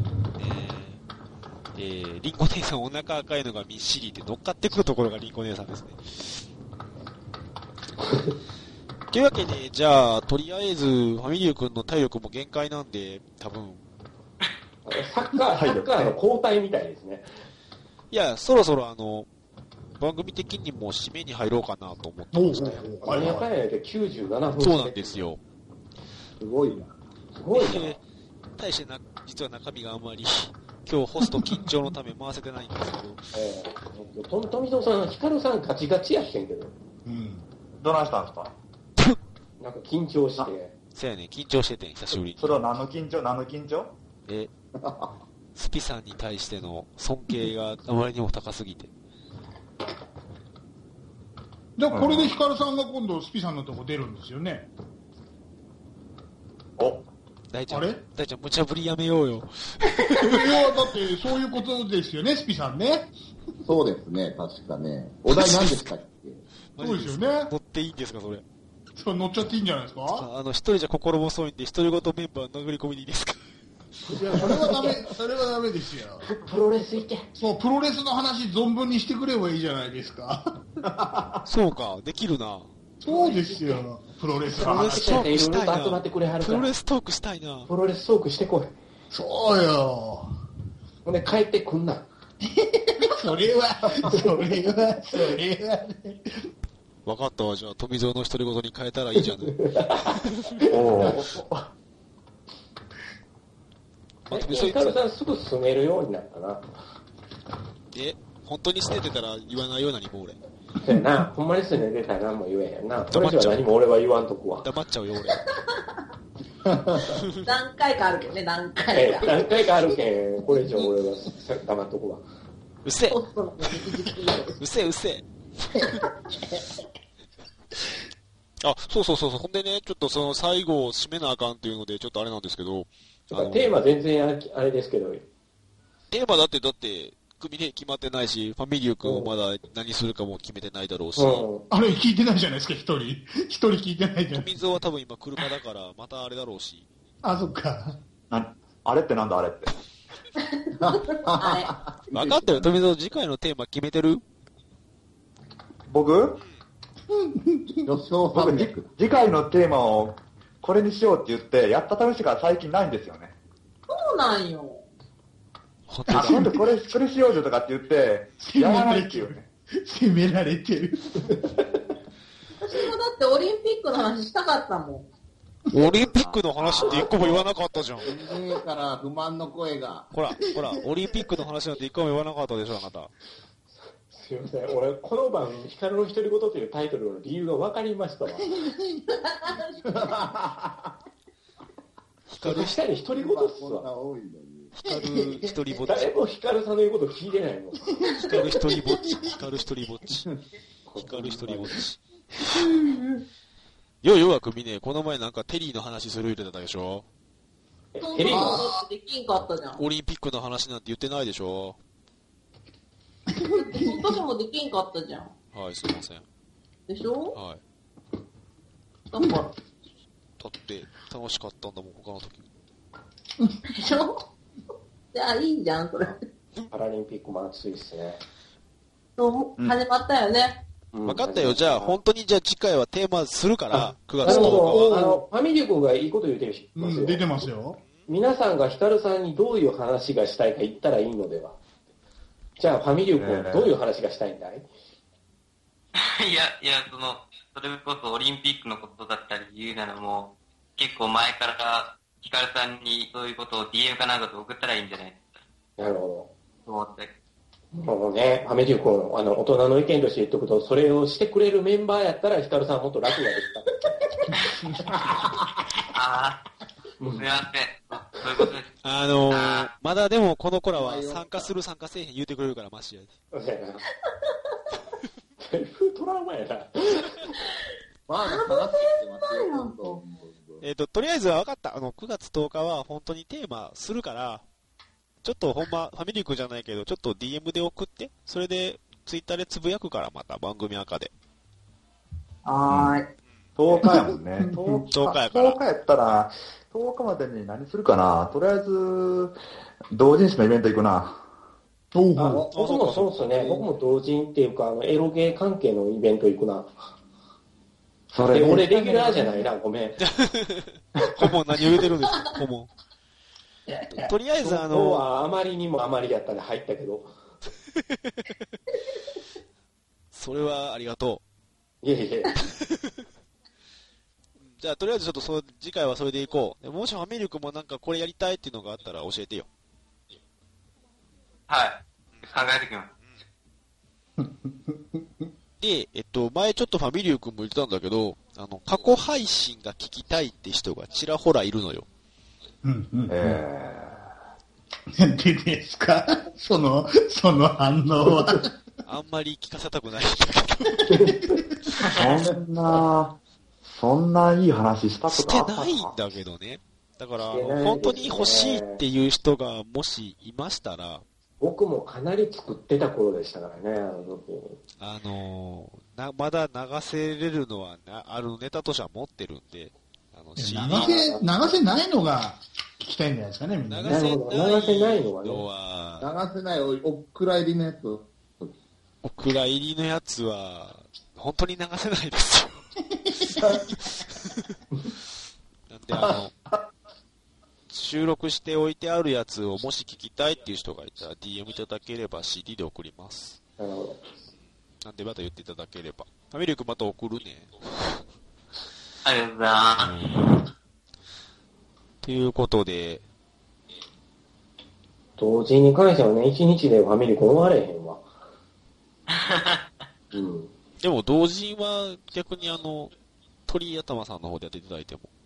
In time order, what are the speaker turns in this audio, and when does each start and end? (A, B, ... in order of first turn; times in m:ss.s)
0:00.4-0:01.0 A
0:01.7-0:06.4 A
0:09.1-0:13.8 A
0:14.8-0:17.3 B
0:15.5-0:16.1 C
0:18.1-0:19.3 A
0:20.0-0:22.9 A
0:22.3-0:23.5 D
0:23.0-0:25.3 B
0:24.6-0:25.4 A
0:26.4-0:26.9 E
0:27.3-0:28.0 B
0:27.5-0:28.0 A
0:28.6-0:33.2 A
0:33.3-0:36.7 B
0:37.0-0:37.4 D
0:37.8-0:38.5 C
0:39.6-0:40.7 B
0:40.9-0:42.7 A
0:42.4-0:43.9 C
0:44.7-0:45.1 E
0:45.6-0:48.9 A
0:51.8-0:54.7 D
0:51.9-0:52.4 C
0:56.8-0:57.0 C
0:57.5-1:00.8 A
0:57.7-0:58.0 D
1:00.2-1:03.1 D
1:03.6-1:06.4 E
1:05.3-1:05.9 A
1:06.8-1:08.4 A
1:06.8-1:07.5 D
1:08.9-1:10.2 D
1:10.1-1:13.4 A
1:14.1-1:16.3 D
1:14.1-1:15.0 B
1:16.2-1:17.2 B
1:17.3-1:20.6 D
1:21.4-1:22.7 A
1:23.0-1:25.2 D
1:23.1-1:23.8 B
1:24.5-1:26.7 B
1:24.6-1:27.7 A
1:27.7-1:28.7 B
1:29.1-1:30.3 D
1:31.0-1:32.0 B
1:32.4-1:36.4 D
1:37.0-1:40.6 A
1:39.4-1:41.1 B
1:40.7-1:41.7 C
1:44.3-1:45.0 A
1:44.3-1:46.6 B
1:47.9-1:50.4 A
1:50.8-1:54.6 B
1:53.1-1:53.6 A
1:54.6-1:55.4 A
1:56.7-1:57.2 E
1:57.2-1:57.5 A
1:57.4-1:59.6 F
1:58.9-2:02.2 B
2:02.8-2:06.0 A
2:03.1-2:04.6 F
2:05.8-2:06.0 F
2:08.6-2:13.8 A
2:13.3-2:15.2 B
2:16.1-2:21.5 A
2:19.0-2:19.3 B
2:21.2-2:21.6 B
2:21.7-2:24.6 D
2:24.3-2:26.9 A
2:27.2-2:28.0 D
2:28.3-2:29.7 C
2:30.8-2:32.7 E
2:31.4-2:31.7 F
2:32.1-2:34.2 A
2:35.9-2:36.4 C
2:37.1-2:37.8 D
2:37.8-2:38.9 E
2:38.3-2:43.3 C
2:43.9-2:44.8 F
2:45.9-2:46.6 A
2:46.1-2:49.5 C
2:46.1-2:46.6 D
2:48.4-2:51.6 D
2:52.6-2:55.1 F
2:55.7-2:58.1 A
2:56.6-2:57.4 E
2:56.8-2:57.3 B
2:58.0-3:00.1 E
3:00.1-3:03.1 A
3:04.1-3:08.5 B
3:08.4-3:09.0 D
3:09.1-3:10.0 F
3:09.8-3:10.9 E
3:12.3-3:12.8 A
3:12.4-3:13.9 B
3:13.1-3:14.7 E
3:14.8-3:16.1 A
3:15.8-3:18.2 B
3:18.2-3:20.3 A
3:20.9-3:21.7 B
3:21.0-3:22.0 A
3:24.0-3:27.0 A
3:27.9-3:28.7 B
3:28.0-3:29.8 F
3:28.3-3:28.6 D
3:29.8-3:31.8 A
3:33.3-3:34.2 D
3:33.5-3:35.3 F
3:35.5-3:36.2 A
3:36.9-3:37.4 F
3:37.3-3:37.6 A
3:39.1-3:39.5 F
3:40.4-3:42.4 A
3:43.7-3:44.2 F
3:45.1-3:46.2 F
3:46.7-3:48.2 B
3:49.2-3:50.6 F
3:50.9-3:52.0 B
3:51.0-3:55.0 A
3:53.7-3:57.5 B
3:54.2-3:55.2 D
3:56.8-3:57.8 D
3:58.1-4:01.6 B
4:02.6-4:04.7 B
4:03.2-4:03.7 C
4:06.0-4:15.3 G
4:15.8-4:16.3 B
4:16.6-4:17.1 G
4:17.7-4:24.0 B
4:25.9-4:26.4 G
4:27.0-4:27.3 B
4:27.1-4:28.7 G
4:28.8-4:33.1 A
4:29.3-4:29.7 G
4:30.7-4:31.5 E
4:33.3-4:33.8 B
4:35.4-4:37.3 B
4:38.1-4:40.6 E
4:38.2-4:40.0 F
4:40.6-4:44.4 A
4:45.2-4:51.1 A
4:52.4-4:53.0 F
4:52.7-4:53.0 C
4:53.6-4:59.4 C
4:53.8-4:54.8 D
4:54.9-4:55.6 A
4:59.9-5:01.2 C
5:01.9-5:02.5 D
5:02.2-5:06.7 B
5:02.5-5:03.4 A
5:03.3-5:03.7 E
5:08.1-5:08.7 C
5:08.3-5:10.0 B
5:10.0-5:12.7 A
5:13.9-5:15.0 A
5:14.4-5:17.1 B
5:17.9-5:18.3 A
5:20.1-5:21.2 A
5:21.8-5:22.3 B
5:22.5-5:22.9 A
5:24.4-5:29.5 A
5:31.5-5:32.9 G
5:34.2-5:35.2 D
5:35.6-5:41.8 A
5:42.6-5:43.4 D
5:43.1-5:44.0 C
5:44.9-5:48.5 D
5:48.8-5:51.0 A
5:50.9-5:51.4 B
5:51.9-5:56.0 C
5:55.1-6:01.0 A
5:57.3-5:58.8 B
6:01.4-6:04.6 B
6:04.8-6:10.9 A
6:10.4-6:14.0 D
6:10.7-6:11.3 B
6:13.7-6:16.1 A
6:13.8-6:15.4 B
6:16.0-6:18.5 E
6:19.0-6:24.4 A
6:25.7-6:26.3 A
6:27.7-6:33.4 A
6:33.6-6:34.0 B
6:34.8-6:38.0 A
6:39.0-6:40.2 G
6:39.8-6:40.1 A
6:42.0-6:43.0 A
6:45.2-6:48.0 B
6:49.1-6:49.6 G
6:50.1-6:50.5 B
6:50.8-6:52.9 A
6:53.5-6:55.1 A